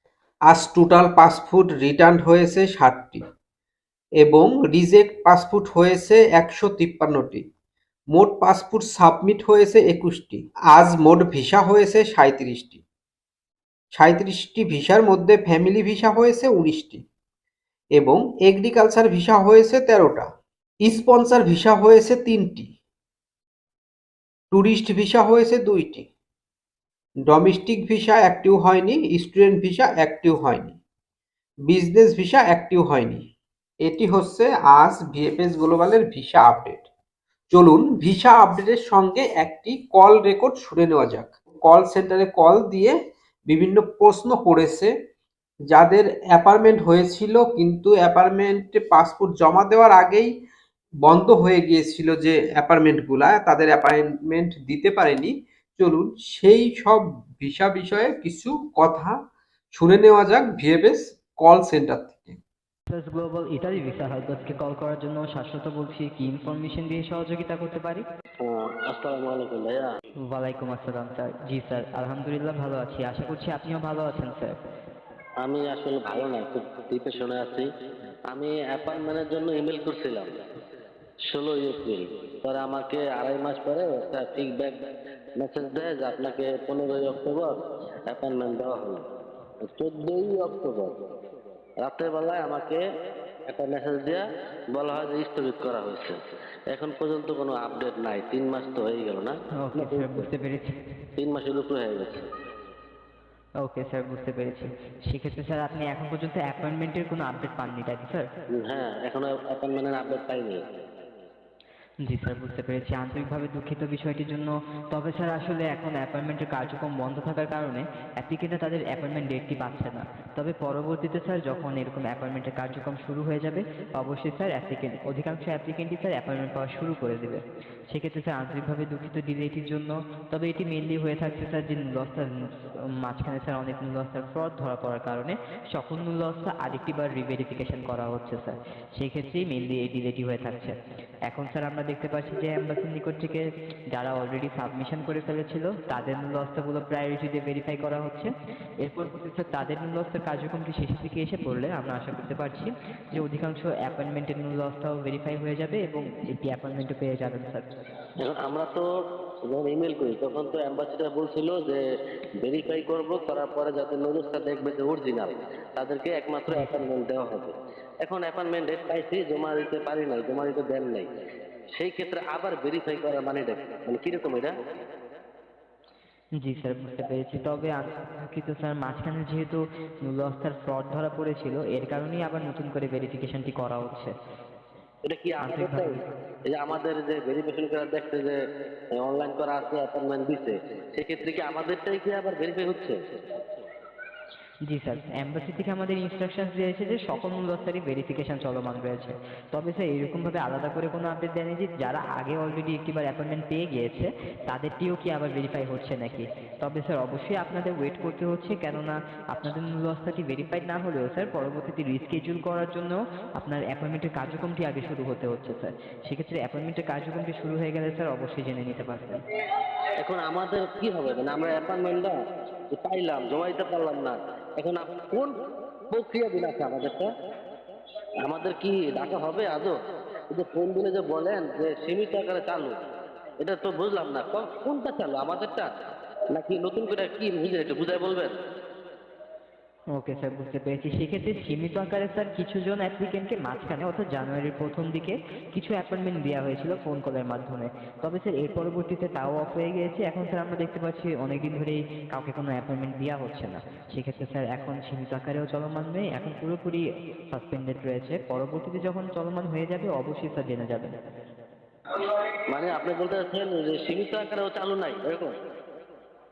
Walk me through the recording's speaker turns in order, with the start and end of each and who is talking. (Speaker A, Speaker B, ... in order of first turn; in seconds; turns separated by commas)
Speaker A: 0.5-3.2, Speaker A: 4.2-7.5, Speaker A: 8.1-12.8, Speaker A: 13.9-17.0, Speaker A: 18.0-20.3, Speaker A: 20.8-22.7, Speaker A: 24.5-26.1, Speaker A: 27.3-30.8, Speaker A: 31.7-33.2, Speaker A: 33.8-36.9, Speaker A: 37.5-43.0, Speaker A: 43.5-44.9, Speaker A: 45.7-50.3, Speaker A: 51.0-59.2, Speaker A: 59.7-62.4, Speaker B: 62.9-68.0, Speaker C: 68.4-69.9, Speaker B: 70.3-74.5, Speaker C: 75.4-77.7, Speaker C: 78.3-80.3, Speaker C: 81.3-84.8, Speaker C: 85.4-87.5, Speaker C: 88.1-89.0, Speaker C: 89.7-90.9, Speaker C: 91.8-92.8, Speaker C: 93.5-94.2, Speaker C: 94.7-96.1, Speaker C: 96.7-100.3, Speaker B: 99.6-100.7, Speaker C: 101.2-102.2, Speaker B: 103.6-108.2, Speaker C: 108.5-110.6, Speaker B: 112.0-132.3, Speaker B: 133.0-140.7, Speaker B: 141.3-143.4, Speaker B: 143.9-148.3, Speaker B: 148.8-157.6, Speaker C: 158.2-158.8, Speaker C: 159.5-161.8, Speaker C: 162.4-167.5, Speaker C: 168.0-171.1, Speaker C: 171.8-174.5, Speaker B: 176.4-184.1, Speaker C: 185.1-188.4, Speaker B: 185.4-186.0, Speaker C: 189.0-192.9, Speaker B: 194.7-219.2, Speaker C: 220.0-222.1, Speaker C: 222.7-225.3, Speaker C: 225.9-227.1, Speaker C: 228.2-229.7, Speaker C: 230.3-232.7, Speaker C: 233.4-235.7, Speaker C: 236.3-238.3, Speaker B: 240.0-260.9, Speaker C: 262.5-265.3